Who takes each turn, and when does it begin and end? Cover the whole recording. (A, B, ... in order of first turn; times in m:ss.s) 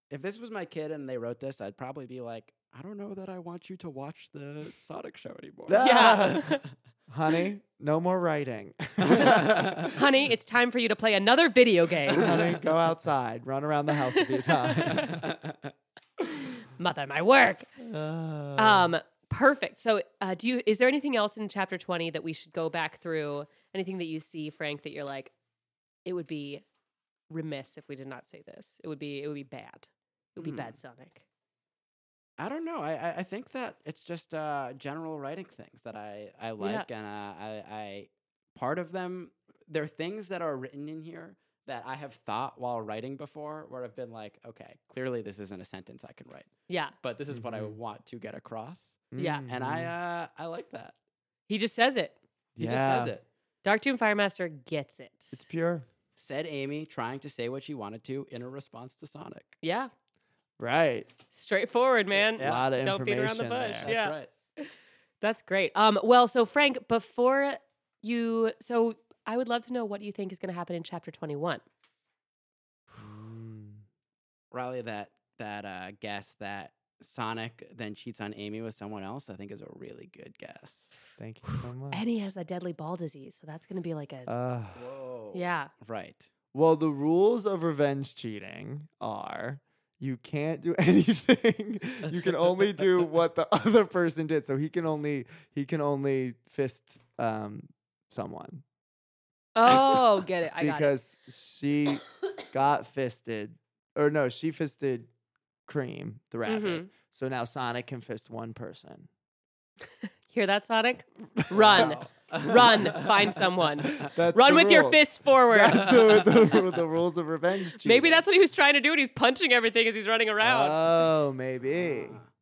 0:00.1-0:06.6 A
0:05.7-0:06.5 B
0:05.8-0:06.6 C
0:07.1-0:09.9 B
0:09.0-0:09.9 A
0:09.9-0:12.3 C
0:12.1-0:15.2 B
0:12.2-0:12.5 A
0:14.1-0:15.0 C
0:14.9-0:15.7 A
0:16.6-0:17.7 C
0:17.8-0:18.9 B
0:18.6-0:25.3 C
0:26.0-0:26.6 C
0:27.3-0:31.2 C
0:32.4-0:46.5 A
0:36.6-0:36.9 C
0:46.7-0:46.9 C
0:47.0-0:50.9 A
0:47.3-0:47.8 B
0:49.1-0:49.9 B
0:49.2-0:49.4 C
0:51.5-0:52.2 C
0:52.6-0:53.2 B
0:52.6-0:53.2 A
0:53.6-0:55.4 C
0:55.3-0:55.9 B
0:56.2-0:59.6 A
0:59.6-0:59.9 C
1:00.6-1:01.1 B
1:01.3-1:11.6 C
1:02.4-1:02.7 A
1:02.4-1:03.9 B
1:03.8-1:04.3 A
1:12.9-1:13.8 B
1:14.5-1:20.9 A
1:21.2-1:22.0 B
1:21.9-1:24.3 C
1:24.3-1:24.8 B
1:24.7-1:26.3 A
1:25.3-1:25.7 C
1:26.5-1:38.6 B
1:39.6-1:40.9 C
1:40.6-1:45.1 B
1:45.7-1:49.1 B
1:46.4-1:46.9 C
1:50.3-1:56.0 C
1:51.4-1:52.0 B
1:51.7-1:53.4 A
1:54.0-1:58.2 B
1:55.9-1:56.6 A
1:57.8-2:00.8 C
2:00.4-2:02.2 B
2:01.8-2:02.3 A